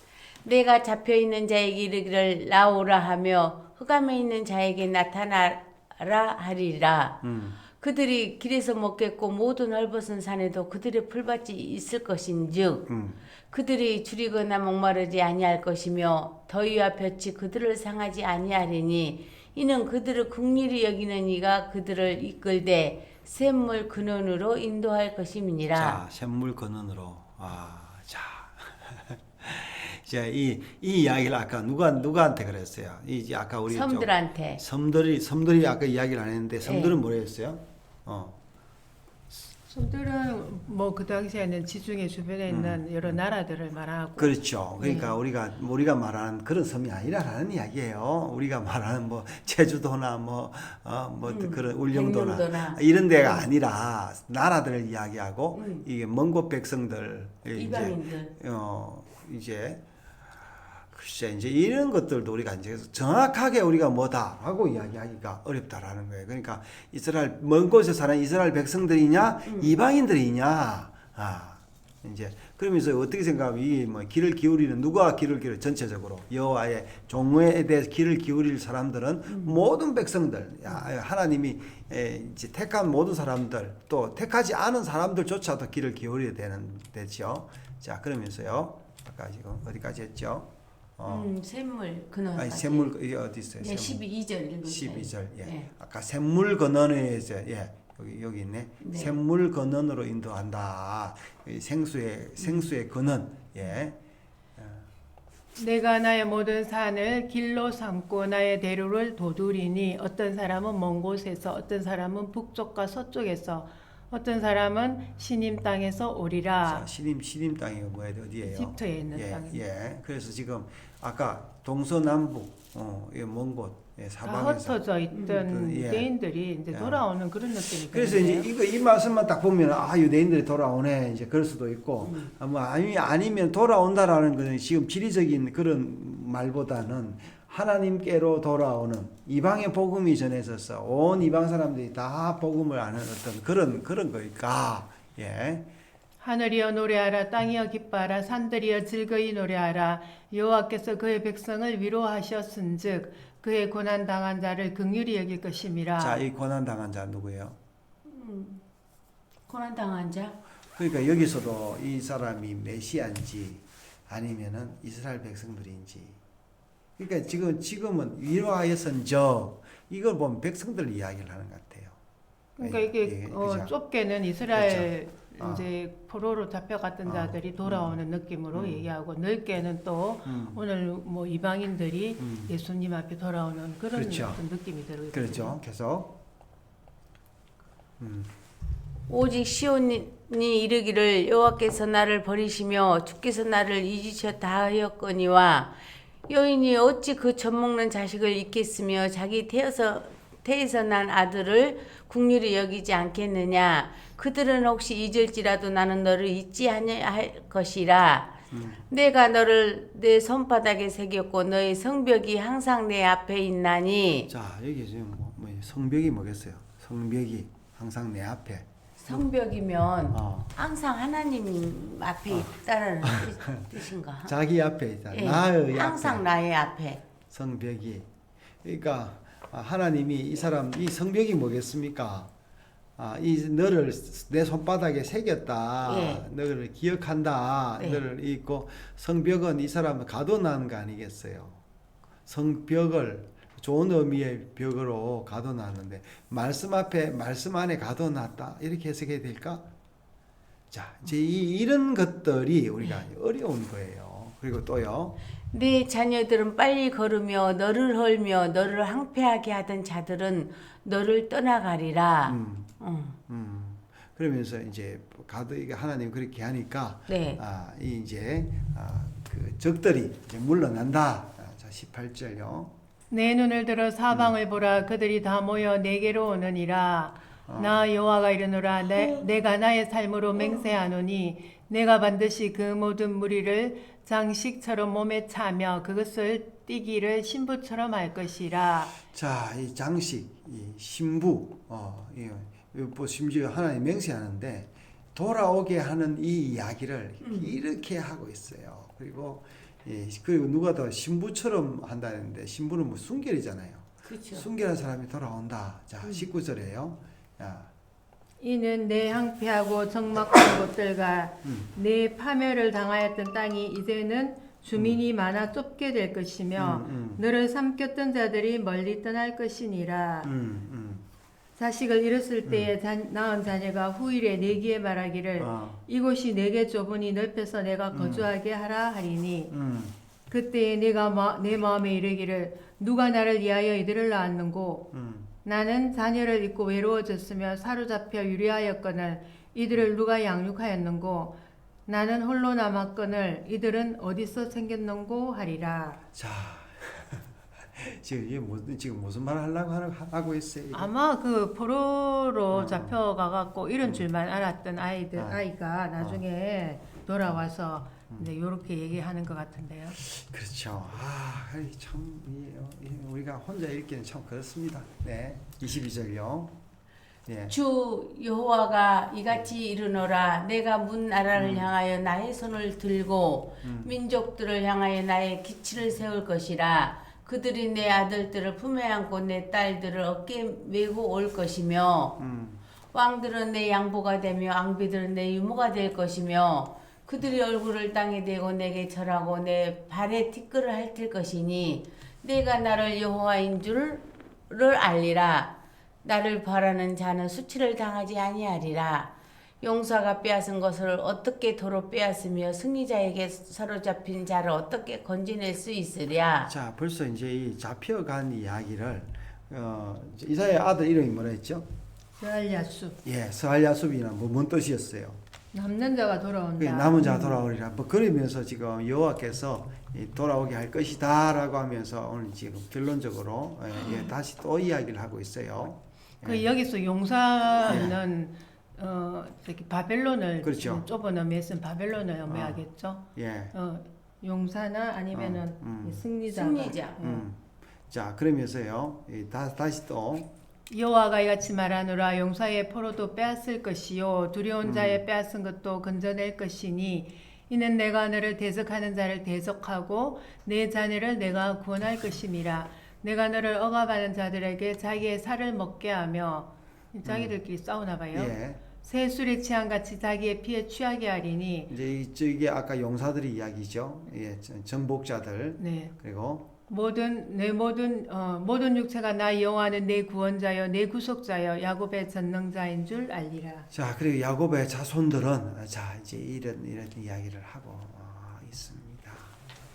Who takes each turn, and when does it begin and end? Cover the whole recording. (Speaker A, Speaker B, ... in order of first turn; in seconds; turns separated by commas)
Speaker A: 0.4-7.2, Speaker B: 7.2-7.6, Speaker A: 7.8-12.8, Speaker B: 12.9-13.2, Speaker A: 13.5-26.0, Speaker B: 25.7-38.4, Speaker A: 33.7-34.6, Speaker A: 36.6-37.0, Speaker C: 39.7-44.3, Speaker B: 42.5-43.2, Speaker B: 44.2-59.8, Speaker A: 44.8-45.1, Speaker A: 51.2-53.5, Speaker A: 55.5-55.9, Speaker A: 57.5-58.3, Speaker B: 60.7-91.3, Speaker A: 69.5-69.8, Speaker A: 79.3-79.7, Speaker A: 91.0-93.0, Speaker B: 92.3-94.0, Speaker A: 93.6-95.7, Speaker B: 94.6-104.0, Speaker A: 98.8-99.2, Speaker A: 102.4-102.7, Speaker B: 104.6-104.9, Speaker C: 105.5-116.9, Speaker B: 116.6-124.8, Speaker C: 118.4-119.6, Speaker C: 124.2-128.5, Speaker A: 125.1-125.4, Speaker B: 125.3-126.1, Speaker B: 126.7-127.0, Speaker B: 127.6-145.7, Speaker A: 132.0-132.3, Speaker C: 146.2-156.2, Speaker B: 156.0-157.6, Speaker A: 158.1-158.6, Speaker A: 159.5-160.4, Speaker B: 160.8-166.2, Speaker B: 167.0-172.0, Speaker C: 172.6-185.6, Speaker B: 172.6-173.7, Speaker B: 174.5-175.7, Speaker B: 177.1-178.9, Speaker B: 180.2-180.6, Speaker B: 182.2-182.5, Speaker B: 183.9-184.4, Speaker B: 185.1-186.2, Speaker B: 188.0-188.3, Speaker A: 189.1-195.8, Speaker A: 196.3-208.3, Speaker B: 208.5-208.8, Speaker A: 208.9-214.3, Speaker B: 214.3-219.3, Speaker A: 219.0-224.3, Speaker B: 220.1-220.5, Speaker B: 223.0-223.7, Speaker B: 224.2-226.3, Speaker A: 225.1-227.0, Speaker B: 227.3-228.1, Speaker B: 228.6-232.3, Speaker B: 233.0-241.6, Speaker A: 235.8-236.2, Speaker B: 242.2-249.6, Speaker B: 250.7-255.2, Speaker A: 255.5-263.1, Speaker B: 262.2-262.7, Speaker B: 263.3-272.7, Speaker A: 267.1-267.4, Speaker C: 273.1-288.9, Speaker B: 274.1-274.3, Speaker B: 277.5-277.8, Speaker B: 289.1-307.7, Speaker A: 297.2-297.6, Speaker A: 304.0-304.5, Speaker A: 306.0-306.3, Speaker C: 308.4-320.3, Speaker B: 311.4-311.7, Speaker B: 314.7-315.0, Speaker B: 316.5-317.2, Speaker B: 320.2-321.1, Speaker C: 321.6-329.5, Speaker B: 322.4-322.7, Speaker B: 325.4-325.8, Speaker B: 327.9-328.3, Speaker B: 329.5-329.9, Speaker C: 330.3-334.9, Speaker B: 334.9-335.3, Speaker C: 335.4-346.0, Speaker B: 346.1-350.9, Speaker C: 350.7-360.0, Speaker B: 352.5-353.0, Speaker B: 355.1-355.4, Speaker B: 356.0-356.2, Speaker B: 359.9-366.6, Speaker B: 367.2-367.5, Speaker A: 367.5-382.2, Speaker B: 371.3-371.7, Speaker B: 373.6-373.9, Speaker B: 382.2-382.6, Speaker A: 382.9-395.5, Speaker A: 396.0-406.5, Speaker B: 406.4-411.6, Speaker C: 412.2-412.9, Speaker B: 413.0-415.2, Speaker C: 415.5-417.3, Speaker B: 416.6-426.5, Speaker C: 426.2-437.2, Speaker B: 427.6-428.0, Speaker B: 430.4-430.8, Speaker B: 432.2-433.5, Speaker B: 435.1-436.0, Speaker A: 436.3-437.0, Speaker B: 437.0-440.3, Speaker C: 440.7-461.7, Speaker B: 444.6-445.0, Speaker B: 457.0-457.4, Speaker B: 458.1-458.6, Speaker B: 461.7-466.5, Speaker C: 465.6-465.9, Speaker C: 466.7-473.7, Speaker B: 473.7-479.3